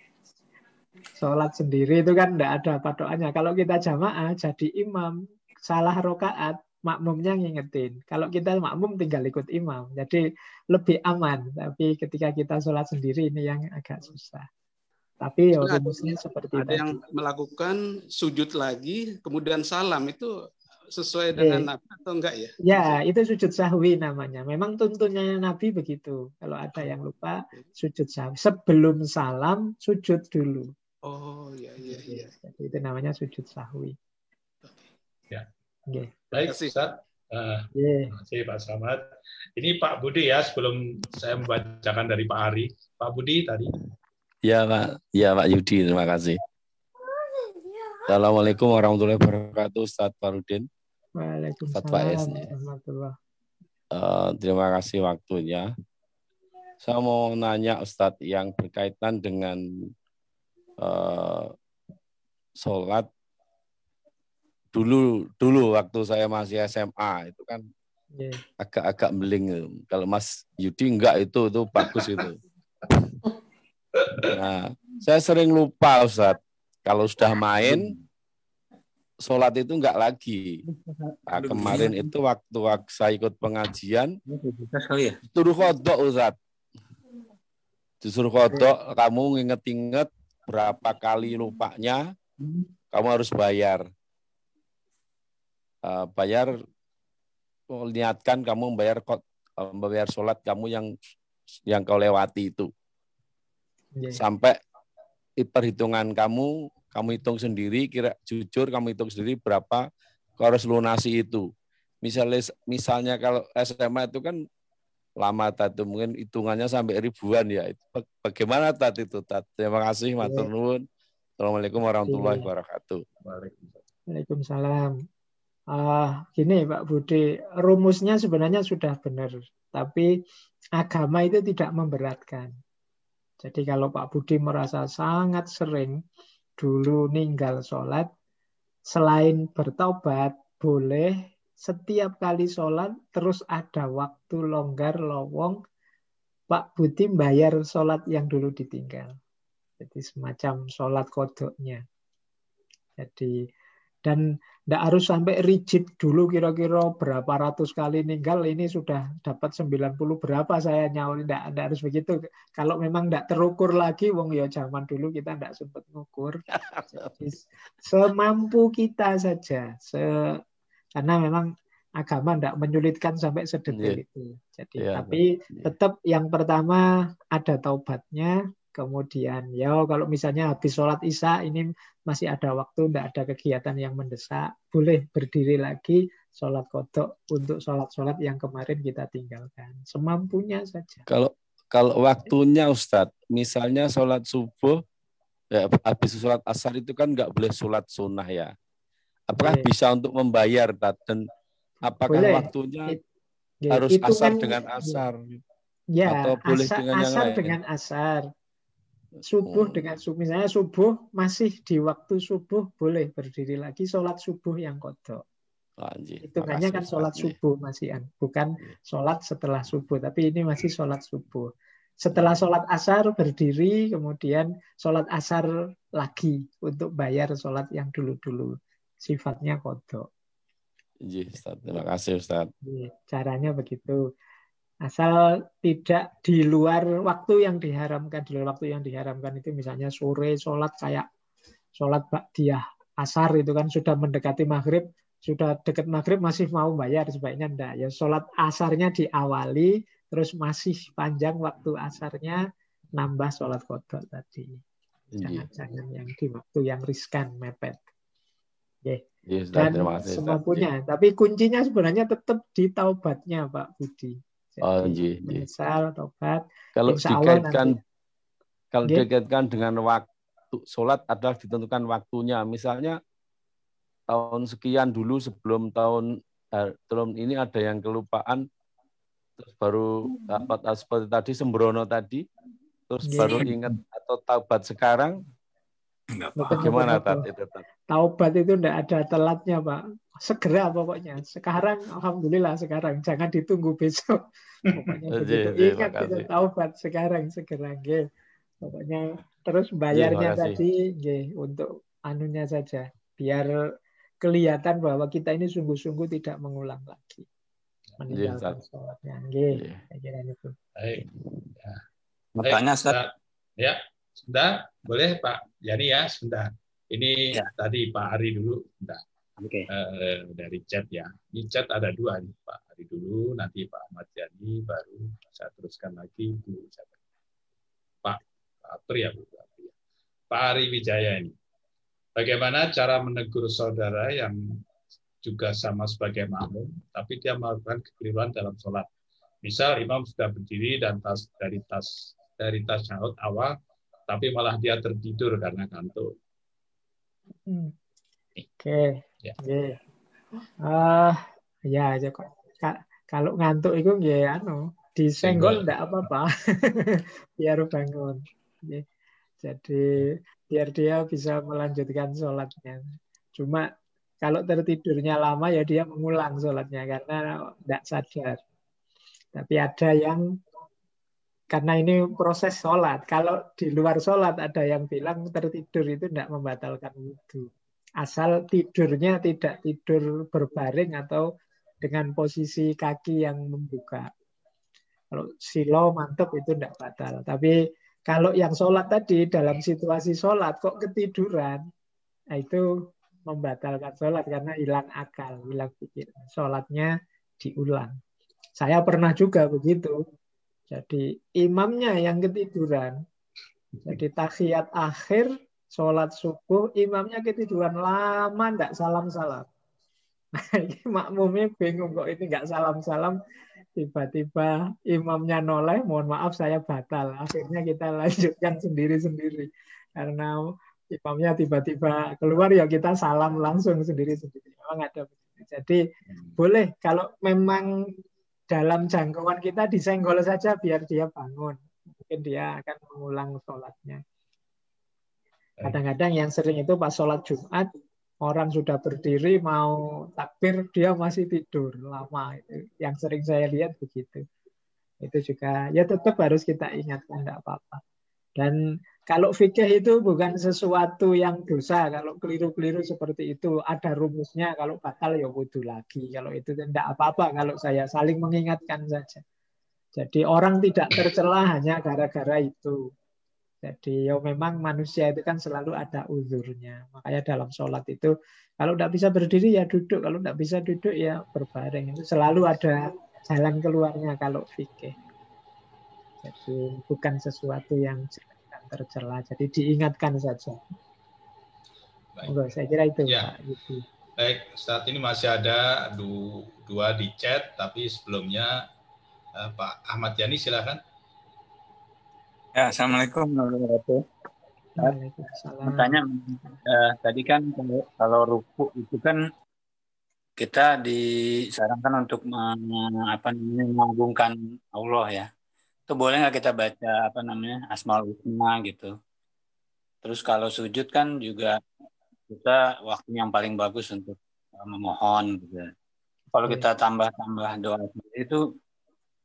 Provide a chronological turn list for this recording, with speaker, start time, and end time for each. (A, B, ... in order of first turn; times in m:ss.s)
0:01.2-0:05.1 A
0:05.7-0:14.5 A
0:15.2-0:17.0 A
0:15.6-0:20.3 B
0:21.0-0:23.0 B
0:21.4-0:21.6 A
0:22.6-0:30.7 A
0:31.1-0:32.3 B
0:31.8-0:33.9 A
0:36.3-0:39.0 C
0:36.4-0:36.7 B
0:37.7-0:38.1 A
0:39.6-0:43.8 C
0:44.4-0:46.4 D
0:48.1-0:50.7 D
0:51.2-0:53.2 A
0:51.8-0:52.4 D
0:53.9-0:55.7 D
0:56.8-0:59.6 D
1:00.8-1:01.5 D
1:02.6-1:03.1 D
1:04.7-1:07.6 D
1:08.2-1:08.4 A
1:08.6-1:12.4 D
1:14.0-1:14.4 C
1:14.3-1:17.8 D
1:19.2-1:20.4 D
1:20.7-1:22.1 E
1:21.3-1:24.1 D
1:24.3-1:25.2 E
1:25.3-1:26.4 D
1:28.0-1:32.0 D
1:32.9-1:33.9 D
1:35.8-1:36.5 D
1:37.7-1:40.9 D
1:41.7-1:42.7 D
1:44.0-1:44.2 A
1:44.2-1:44.6 D
1:45.4-1:49.8 D
1:50.4-1:51.5 D
1:52.0-1:54.4 D
1:55.2-2:00.8 D
2:00.2-2:00.5 A
2:01.4-2:03.0 D
2:02.1-2:02.5 A
2:03.2-2:03.8 C
2:04.1-2:04.9 A
2:05.7-2:10.1 A
2:10.8-2:12.5 A
2:13.4-2:16.0 A
2:16.6-2:18.1 A
2:18.9-2:25.6 A
2:26.5-2:29.1 A
2:29.8-2:31.8 A
2:33.0-2:33.4 A
2:34.0-2:46.4 A
2:46.9-2:50.4 A
2:51.0-3:11.1 A
2:54.8-2:55.7 D
3:11.1-3:14.8 D
3:15.5-3:18.5 D
3:19.3-3:21.2 D
3:19.4-3:19.7 A
3:21.8-3:22.9 D
3:22.0-3:23.0 A
3:23.6-3:25.0 A
3:23.8-3:25.4 D
3:25.9-3:28.2 A
3:26.2-3:27.6 D
3:29.3-3:35.2 A
3:35.8-3:37.4 D
3:36.2-3:41.5 A
3:42.0-3:50.1 A
3:51.0-3:52.5 D
3:52.6-3:54.0 A
3:54.8-4:01.1 A
4:01.8-4:12.4 A
4:13.0-4:17.8 A
4:15.2-4:15.4 D
4:18.8-4:27.8 A
4:19.3-4:20.6 D
4:24.6-4:25.4 D
4:26.8-4:27.7 D
4:28.7-4:33.0 D
4:34.1-4:38.4 D
4:39.4-4:42.2 D
4:42.9-4:45.2 D
4:43.0-4:43.5 A
4:46.2-4:46.7 E
4:46.4-4:47.3 A
4:46.6-4:47.6 D
4:47.9-4:58.0 A
4:55.2-4:56.3 D
4:58.6-5:03.5 A
4:59.9-5:00.5 D
5:04.2-5:07.3 A
5:08.0-5:10.6 A
5:08.1-5:08.6 D
5:10.8-5:11.0 C
5:12.4-5:12.9 E
5:12.4-5:19.0 C
5:19.4-5:19.6 E
5:19.7-5:27.0 C
5:28.0-5:29.7 C
5:30.3-5:31.3 C
5:32.2-5:34.6 C
5:35.2-5:38.9 C
5:39.4-5:43.5 C
5:44.1-5:46.1 C
5:47.5-5:47.7 A
5:48.6-5:49.8 A
5:50.6-5:58.8 A
5:55.2-5:55.8 C
5:59.4-6:02.8 A
6:03.4-6:03.7 A
6:04.2-6:08.4 A
6:09.3-6:10.2 A
6:11.5-6:17.5 A
6:18.0-6:21.2 A
6:21.8-6:24.1 A
6:25.1-6:27.6 A
6:28.1-6:31.6 A
6:32.3-6:32.6 A
6:33.3-6:38.0 A
6:38.6-6:40.0 A
6:40.7-6:43.0 A
6:43.9-6:49.5 A
6:50.4-6:53.2 A
6:53.8-7:05.8 A
7:06.4-7:07.7 A
7:08.5-7:14.0 A
7:15.6-7:17.7 A
7:18.2-7:24.2 A
7:25.0-7:27.8 A
7:29.1-7:39.2 A
7:40.0-7:42.8 A
7:43.6-7:55.0 A
7:56.2-8:00.6 A
8:02.2-8:03.8 A
8:03.1-8:03.3 C
8:04.2-8:08.6 C
8:09.4-8:10.8 C
8:12.6-8:14.0 E
8:14.8-8:16.0 A
8:15.6-8:19.2 E
8:20.4-8:25.3 E
8:25.9-8:28.9 E
8:30.0-8:31.6 E
8:32.3-8:35.7 E
8:36.3-8:38.4 E